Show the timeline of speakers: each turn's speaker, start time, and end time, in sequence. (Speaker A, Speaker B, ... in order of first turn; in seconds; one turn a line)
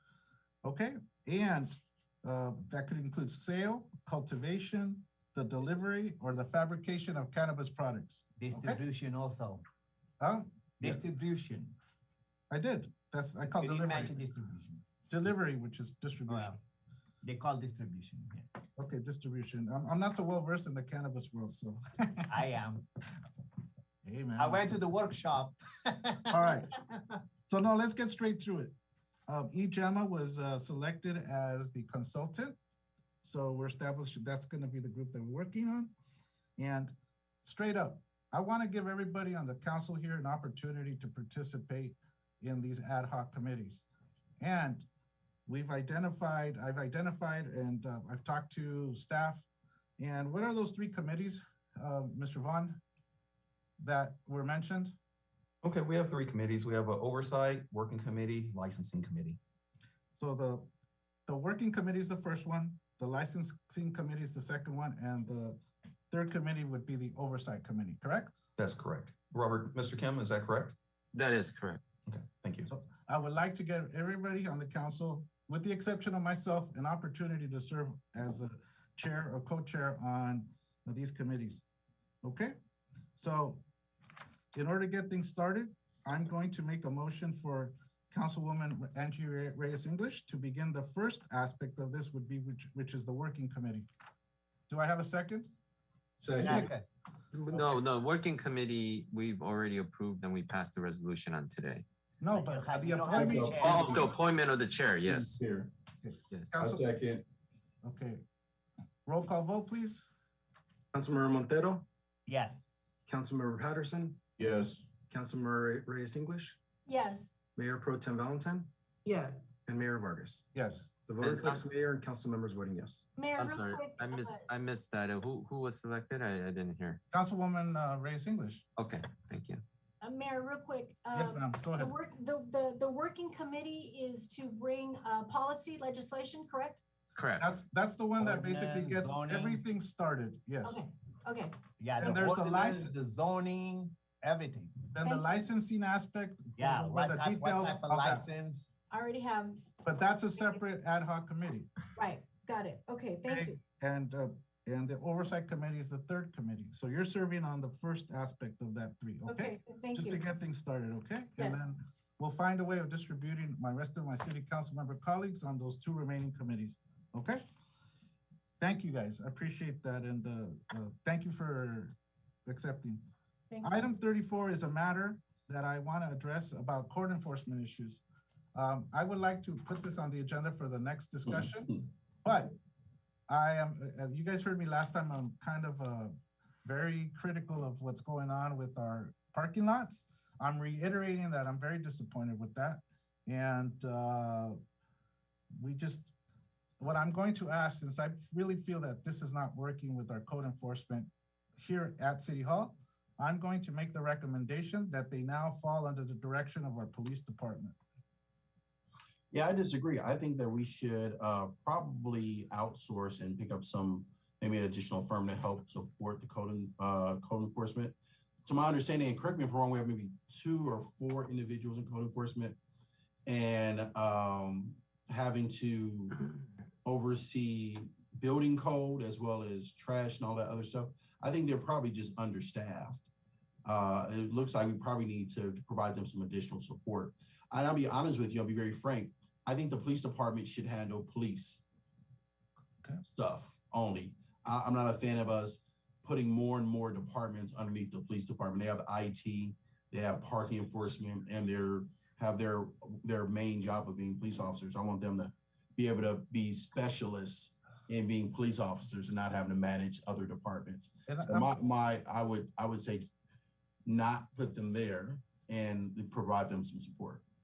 Speaker A: 0.6-1.7
Speaker A: 2.2-8.8
Speaker B: 8.4-9.6
Speaker A: 10.2-11.0
Speaker B: 10.8-11.7
Speaker A: 12.5-14.2
Speaker B: 13.6-14.8
Speaker A: 15.1-16.6
Speaker B: 16.3-16.6
Speaker B: 17.2-18.4
Speaker A: 18.8-22.3
Speaker B: 22.3-22.9
Speaker A: 24.0-24.7
Speaker B: 24.4-26.4
Speaker A: 26.3-26.7
Speaker A: 27.5-28.7
Speaker A: 29.3-32.6
Speaker A: 33.2-35.9
Speaker A: 36.6-43.9
Speaker A: 44.4-44.9
Speaker A: 45.5-49.5
Speaker A: 50.0-52.8
Speaker A: 53.8-54.9
Speaker C: 55.6-59.4
Speaker A: 60.1-60.7
Speaker A: 61.3-68.4
Speaker C: 68.6-70.7
Speaker D: 71.1-71.8
Speaker C: 72.1-72.7
Speaker A: 72.7-81.6
Speaker A: 82.2-82.5
Speaker A: 83.2-83.6
Speaker A: 84.5-93.9
Speaker A: 94.7-95.5
Speaker A: 96.2-96.7
Speaker B: 96.4-96.8
Speaker D: 97.3-101.8
Speaker A: 102.2-104.0
Speaker B: 102.3-104.1
Speaker E: 103.2-104.1
Speaker D: 103.6-105.4
Speaker E: 105.0-105.7
Speaker A: 106.0-106.9
Speaker E: 106.6-107.2
Speaker A: 107.8-108.2
Speaker A: 109.0-110.0
Speaker F: 110.9-111.8
Speaker B: 112.2-112.6
Speaker F: 113.1-114.2
Speaker E: 114.4-114.8
Speaker F: 115.0-116.6
Speaker G: 116.8-117.3
Speaker F: 117.5-118.7
Speaker G: 119.0-119.5
Speaker F: 119.7-120.4
Speaker A: 120.5-120.9
Speaker F: 121.1-123.1
Speaker D: 121.2-121.6
Speaker G: 123.1-124.4
Speaker D: 123.3-127.0
Speaker A: 127.1-128.6
Speaker D: 128.8-129.6
Speaker G: 130.0-136.8
Speaker A: 131.1-131.9
Speaker D: 137.2-137.4
Speaker A: 137.4-140.8
Speaker B: 138.2-139.6
Speaker G: 140.6-142.3
Speaker B: 141.8-144.8
Speaker A: 142.0-142.9
Speaker A: 144.9-148.2
Speaker B: 146.6-148.7
Speaker G: 148.9-149.7
Speaker A: 149.8-151.7
Speaker G: 151.9-153.6
Speaker A: 153.3-167.4
Speaker G: 159.3-160.2
Speaker G: 161.4-161.7
Speaker A: 168.6-171.9
Speaker A: 172.4-173.0
Speaker G: 173.5-173.9
Speaker A: 173.6-178.0
Speaker A: 178.5-182.5
Speaker A: 183.3-194.6
Speaker A: 195.5-196.1
Speaker A: 196.8-207.8
Speaker E: 209.3-222.6
Speaker E: 223.2-226.2
Speaker E: 226.8-233.1
Speaker E: 233.6-241.6
Speaker E: 243.1-263.1
Speaker A: 261.1-261.6
Speaker E: 263.8-267.2